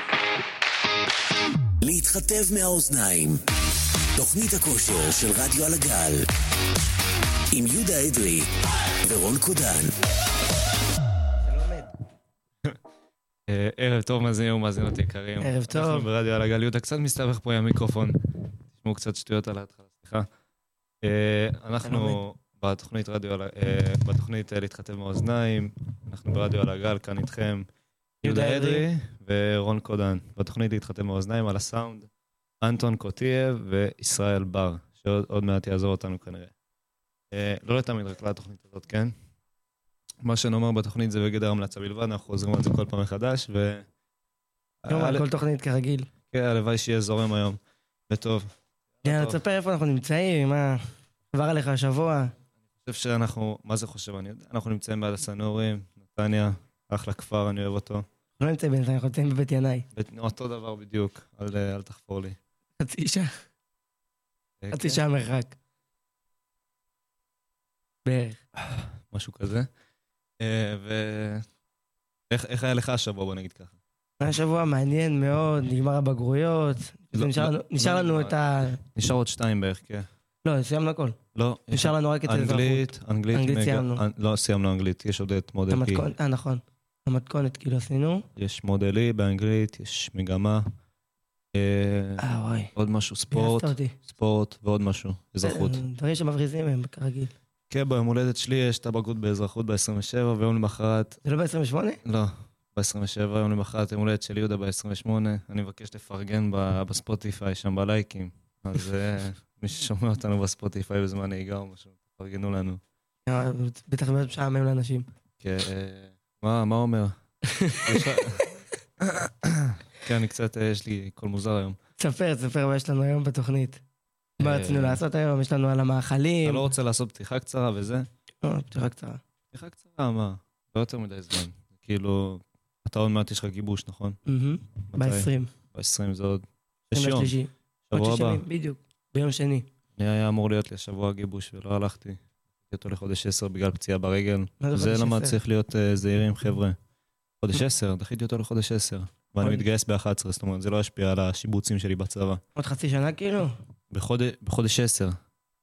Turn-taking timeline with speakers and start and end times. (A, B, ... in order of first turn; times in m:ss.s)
0:01.8-0:03.4 A
0:04.2-0:06.3 A
0:07.5-0:08.5 A
0:09.0-0:09.9 A
0:11.4-0:11.9 B
0:13.5-0:18.2 C
0:15.4-0:16.1 B
0:18.7-0:20.3 C
0:21.0-0:27.7 C
0:21.8-0:22.2 B
0:28.2-0:28.9 B
0:28.2-0:32.1 C
0:32.6-0:36.5 C
0:37.3-0:39.1 C
0:40.2-0:43.9 C
0:44.8-0:45.3 C
0:44.9-0:46.1 B
0:46.3-0:47.6 C
0:48.1-0:48.5 C
0:49.0-0:49.4 C
0:49.0-0:52.3 B
0:52.8-0:58.0 C
0:58.4-0:59.8 B
0:59.9-1:02.4 C
1:02.8-1:03.3 B
1:04.6-1:05.0 C
1:04.7-1:05.6 B
1:08.0-1:08.4 B
1:08.6-1:09.7 C
1:10.4-1:11.4 C
1:12.3-1:13.8 C
1:14.2-1:18.8 B
1:17.1-1:20.1 C
1:20.4-1:21.2 B
1:21.3-1:26.1 C
1:21.7-1:24.0 B
1:25.7-1:28.2 B
1:28.4-1:30.7 C
1:31.5-1:32.2 C
1:32.2-1:32.7 B
1:32.8-1:35.8 C
1:33.3-1:34.0 B
1:35.4-1:37.3 B
1:37.7-1:41.2 C
1:41.2-1:42.0 B
1:42.0-1:52.8 C
1:53.2-1:55.1 B
1:55.4-1:57.1 C
1:57.5-1:58.2 B
1:57.8-2:01.8 C
2:02.0-2:03.8 B
2:04.4-2:06.7 B
2:04.4-2:05.0 C
2:06.4-2:08.1 C
2:08.4-2:09.2 B
2:09.5-2:14.2 C
2:14.2-2:15.5 B
2:14.9-2:17.3 C
2:16.9-2:19.7 B
2:17.9-2:18.4 C
2:20.0-2:26.8 C
2:24.6-2:25.4 B
2:27.4-2:32.4 C
2:32.6-2:33.6 B
2:33.9-2:35.2 C